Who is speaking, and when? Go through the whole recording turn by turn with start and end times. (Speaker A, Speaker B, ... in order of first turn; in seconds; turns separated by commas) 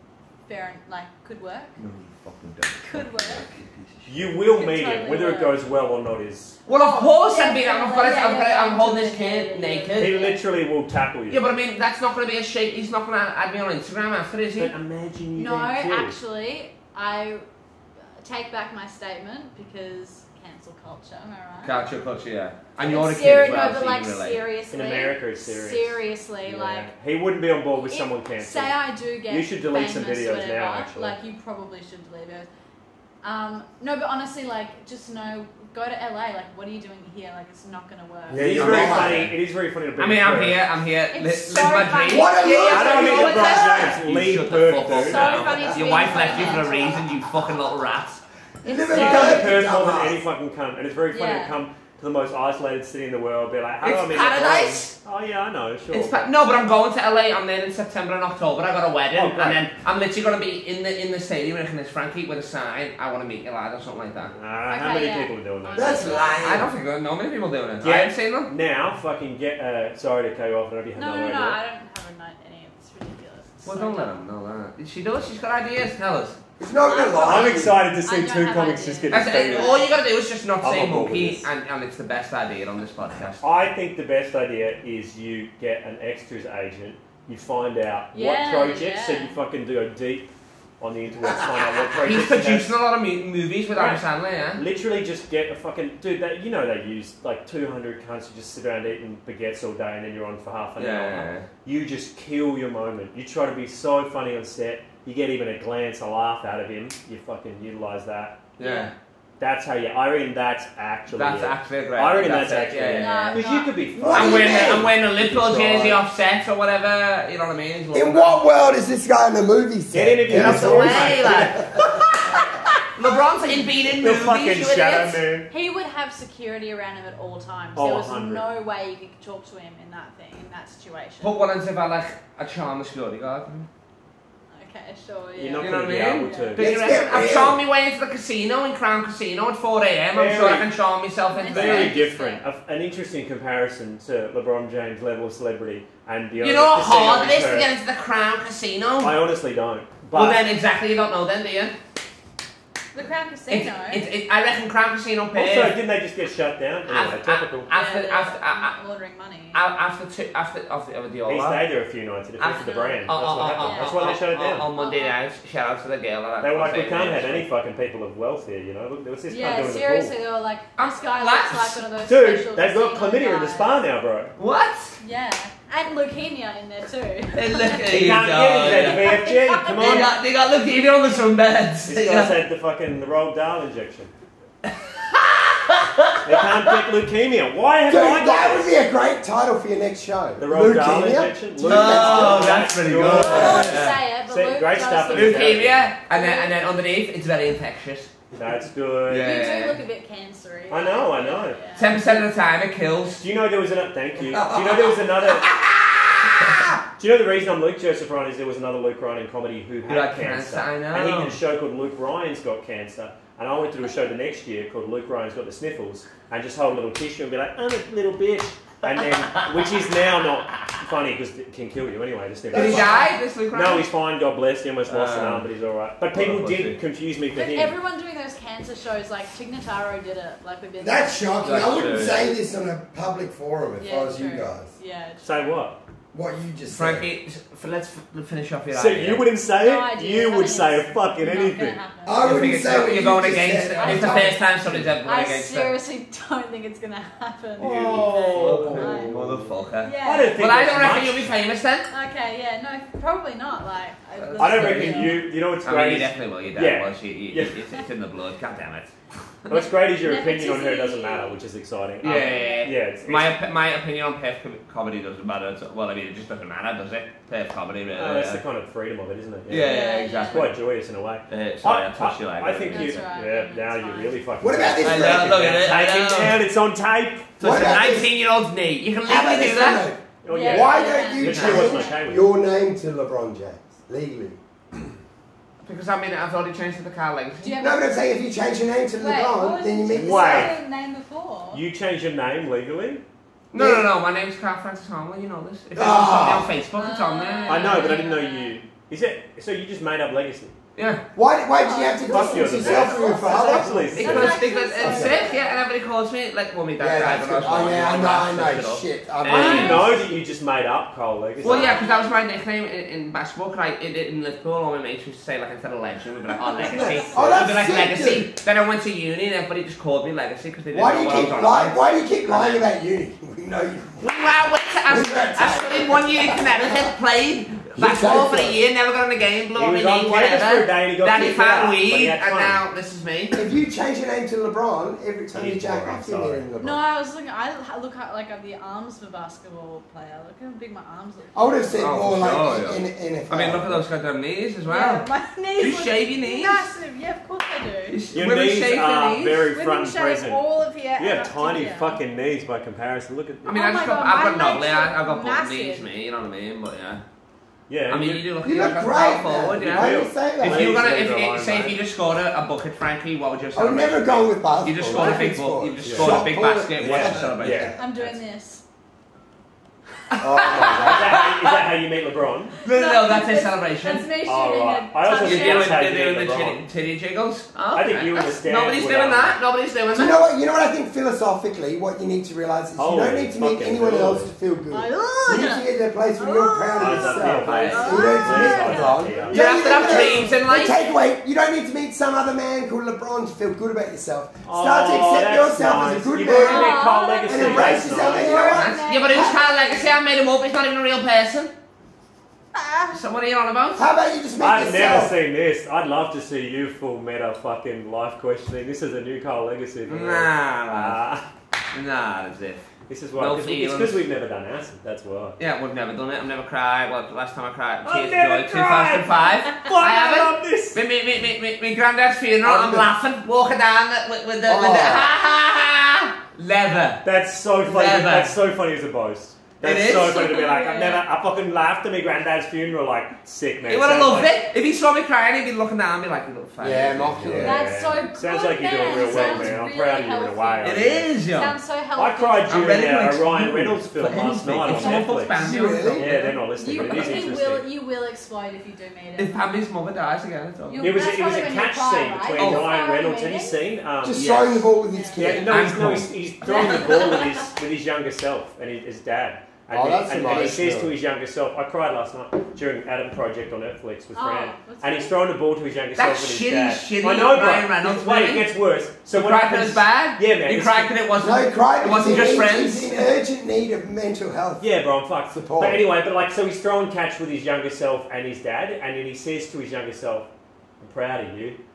Speaker A: 0.5-1.8, Speaker B: 1.8-3.9, Speaker A: 2.9-3.5, Speaker C: 4.1-6.6, Speaker A: 4.4-5.6, Speaker B: 6.7-10.3, Speaker A: 6.7-10.4, Speaker C: 10.0-11.4, Speaker B: 11.3-14.7, Speaker C: 14.6-16.1, Speaker A: 15.4-17.4, Speaker A: 18.2-21.8, Speaker B: 21.6-24.4, Speaker A: 22.8-26.9, Speaker C: 24.7-31.1, Speaker A: 27.8-32.5, Speaker A: 33.2-38.6, Speaker D: 38.3-39.3, Speaker C: 38.3-40.6, Speaker B: 38.5-39.3, Speaker B: 40.0-48.2, Speaker A: 41.1-43.9, Speaker D: 42.1-43.9, Speaker C: 42.7-45.6, Speaker A: 44.9-47.1, Speaker D: 48.6-50.2, Speaker A: 48.6-49.6, Speaker C: 48.9-56.3, Speaker A: 51.1-51.5, Speaker B: 53.8-55.0, Speaker B: 55.9-64.3, Speaker C: 59.1-59.7, Speaker C: 64.3-66.2, Speaker A: 64.7-66.5, Speaker D: 65.7-66.7, Speaker B: 66.3-68.5, Speaker C: 67.8-71.6, Speaker A: 71.0-74.2, Speaker B: 73.6-76.4, Speaker D: 76.6-77.8, Speaker A: 76.8-80.0, Speaker C: 77.2-79.8, Speaker B: 79.1-83.4, Speaker C: 80.6-81.5, Speaker C: 83.4-92.8, Speaker A: 88.1-89.4, Speaker B: 92.0-94.6, Speaker C: 93.7-94.0, Speaker C: 94.5-108.4, Speaker B: 100.8-101.5, Speaker B: 108.6-108.9, Speaker A: 108.6-108.9, Speaker C: 109.4-116.0, Speaker B: 111.1-113.4, Speaker A: 113.0-113.9, Speaker D: 114.0-114.9, Speaker B: 114.1-118.4, Speaker D: 117.9-121.9, Speaker C: 119.9-121.5, Speaker B: 120.3-125.2, Speaker C: 124.0-125.5, Speaker A: 125.5-131.4, Speaker C: 127.8-128.4, Speaker B: 131.2-133.7, Speaker A: 134.5-136.6, Speaker C: 135.4-136.7, Speaker B: 135.6-142.0, Speaker D: 136.6-137.6, Speaker C: 140.1-140.7, Speaker A: 141.3-142.4, Speaker C: 141.4-147.7, Speaker B: 146.4-149.2, Speaker C: 149.0-150.4, Speaker B: 150.1-151.8, Speaker A: 152.9-154.1, Speaker B: 153.5-155.8, Speaker C: 155.3-157.7, Speaker B: 156.9-158.8, Speaker A: 157.7-159.6, Speaker B: 159.5-161.7, Speaker C: 161.3-164.7, Speaker B: 162.4-167.5, Speaker A: 162.6-165.2, Speaker C: 166.4-170.1, Speaker A: 169.3-173.8, Speaker B: 170.8-171.8, Speaker C: 172.0-174.3, Speaker B: 174.4-175.0, Speaker A: 175.0-177.9, Speaker B: 177.3-182.3, Speaker C: 177.9-180.1, Speaker A: 178.7-180.2, Speaker C: 181.9-184.1, Speaker B: 184.7-186.6, Speaker C: 186.2-188.8, Speaker D: 187.9-192.7, Speaker C: 190.4-195.9, Speaker B: 191.7-194.0, Speaker A: 193.0-196.6, Speaker B: 195.1-198.1, Speaker C: 198.3-199.3, Speaker B: 199.1-199.8, Speaker A: 199.2-202.1, Speaker C: 200.7-202.2, Speaker B: 201.8-203.2, Speaker C: 203.2-205.6, Speaker D: 204.5-204.8, Speaker C: 207.0-227.8, Speaker B: 209.9-211.4, Speaker D: 222.5-223.1, Speaker B: 222.5-223.9, Speaker B: 224.9-225.5, Speaker B: 226.1-226.8, Speaker A: 227.3-231.9, Speaker D: 230.8-234.7, Speaker B: 231.4-232.3, Speaker A: 233.8-235.6, Speaker C: 235.2-235.8, Speaker D: 236.1-237.1, Speaker B: 236.7-239.2, Speaker C: 238.7-241.8, Speaker A: 239.4-243.0, Speaker D: 242.1-244.4, Speaker B: 242.2-245.8, Speaker A: 243.8-250.4, Speaker C: 247.6-249.4, Speaker B: 247.6-251.9, Speaker C: 250.0-251.3, Speaker A: 251.9-255.2, Speaker B: 254.2-258.9, Speaker C: 254.4-257.6, Speaker C: 259.5-263.4, Speaker A: 259.6-261.4, Speaker B: 262.0-268.4, Speaker A: 262.1-262.7, Speaker C: 267.9-277.5, Speaker B: 269.5-270.5, Speaker A: 269.6-270.6, Speaker B: 271.3-273.0, Speaker A: 272.7-274.3, Speaker D: 274.4-275.5, Speaker B: 274.8-276.4, Speaker D: 277.4-278.1, Speaker B: 277.4-279.9, Speaker D: 279.1-284.9, Speaker C: 280.2-282.3, Speaker A: 280.3-282.0, Speaker B: 281.2-281.8, Speaker B: 285.6-287.5, Speaker A: 287.4-287.9, Speaker D: 287.6-290.5, Speaker A: 289.0-291.6, Speaker C: 289.9-290.5, Speaker C: 291.5-293.0, Speaker B: 293.5-297.9, Speaker D: 293.5-293.9, Speaker D: 295.8-296.6, Speaker A: 296.7-298.6, Speaker C: 297.5-300.6, Speaker B: 300.8-301.0, Speaker D: 301.2-304.1, Speaker A: 301.6-305.6, Speaker C: 302.1-304.4, Speaker B: 303.9-310.0, Speaker D: 304.8-305.2, Speaker D: 306.8-309.9, Speaker C: 309.3-311.8, Speaker A: 309.4-309.9, Speaker A: 311.4-312.3, Speaker B: 311.4-322.7, Speaker A: 316.3-317.2, Speaker C: 316.6-317.1, Speaker D: 317.1-318.3, Speaker D: 320.7-324.1, Speaker B: 324.0-333.4, Speaker D: 324.9-326.9, Speaker D: 327.8-328.6, Speaker C: 329.6-332.6, Speaker D: 333.3-336.8, Speaker C: 335.3-336.4, Speaker A: 336.6-341.8, Speaker D: 341.4-343.8, Speaker B: 341.8-345.1, Speaker A: 344.7-348.0, Speaker B: 345.6-346.7, Speaker B: 347.9-349.4, Speaker C: 348.1-350.4, Speaker A: 349.5-352.0, Speaker C: 351.0-353.6, Speaker A: 353.4-355.9, Speaker B: 353.4-357.0, Speaker C: 357.7-358.3, Speaker B: 357.9-368.2, Speaker D: 358.4-360.9, Speaker C: 359.6-361.8, Speaker D: 363.5-367.8, Speaker C: 365.8-366.2, Speaker C: 366.8-367.7, Speaker A: 367.8-368.6, Speaker B: 370.1-371.6, Speaker D: 370.2-371.1, Speaker C: 370.6-372.6, Speaker A: 372.6-375.8, Speaker B: 372.6-374.1, Speaker C: 374.2-376.6, Speaker B: 375.2-380.2, Speaker C: 377.7-379.4, Speaker D: 379.9-399.5, Speaker C: 382.8-384.3, Speaker A: 384.7-385.7, Speaker A: 386.2-390.7, Speaker C: 386.8-390.1, Speaker B: 389.3-390.9, Speaker C: 394.4-398.6, Speaker A: 396.2-399.9, Speaker B: 398.3-401.5, Speaker A: 402.6-403.0, Speaker B: 402.9-403.9, Speaker D: 403.8-405.1, Speaker C: 404.4-411.2, Speaker B: 409.9-411.0, Speaker B: 411.7-412.6, Speaker C: 412.9-415.4, Speaker B: 413.2-414.0, Speaker B: 415.4-427.0, Speaker C: 417.8-420.8, Speaker D: 422.4-422.9, Speaker D: 424.5-425.1, Speaker C: 427.0-434.3, Speaker B: 427.6-428.4, Speaker B: 429.6-430.2, Speaker A: 429.9-431.1, Speaker B: 433.7-437.6, Speaker D: 436.6-437.6, Speaker C: 437.3-441.1, Speaker A: 437.4-442.8, Speaker B: 438.9-439.5, Speaker B: 440.6-441.5, Speaker C: 442.0-445.4, Speaker B: 442.5-446.3, Speaker A: 444.7-445.6, Speaker D: 445.4-446.2, Speaker C: 445.9-447.6, Speaker A: 446.5-449.5, Speaker B: 446.9-447.4, Speaker B: 449.2-451.1, Speaker A: 450.7-453.6, Speaker C: 450.8-454.3, Speaker B: 452.4-452.7, Speaker D: 454.0-455.6, Speaker B: 454.1-454.7, Speaker A: 454.9-455.4, Speaker C: 455.2-470.9, Speaker B: 455.3-457.3, Speaker D: 459.7-461.0, Speaker B: 460.2-460.6, Speaker A: 464.1-465.2, Speaker B: 466.0-468.5, Speaker B: 469.1-473.1, Speaker D: 471.2-474.6, Speaker C: 474.6-480.3, Speaker D: 475.3-475.9, Speaker C: 480.8-481.6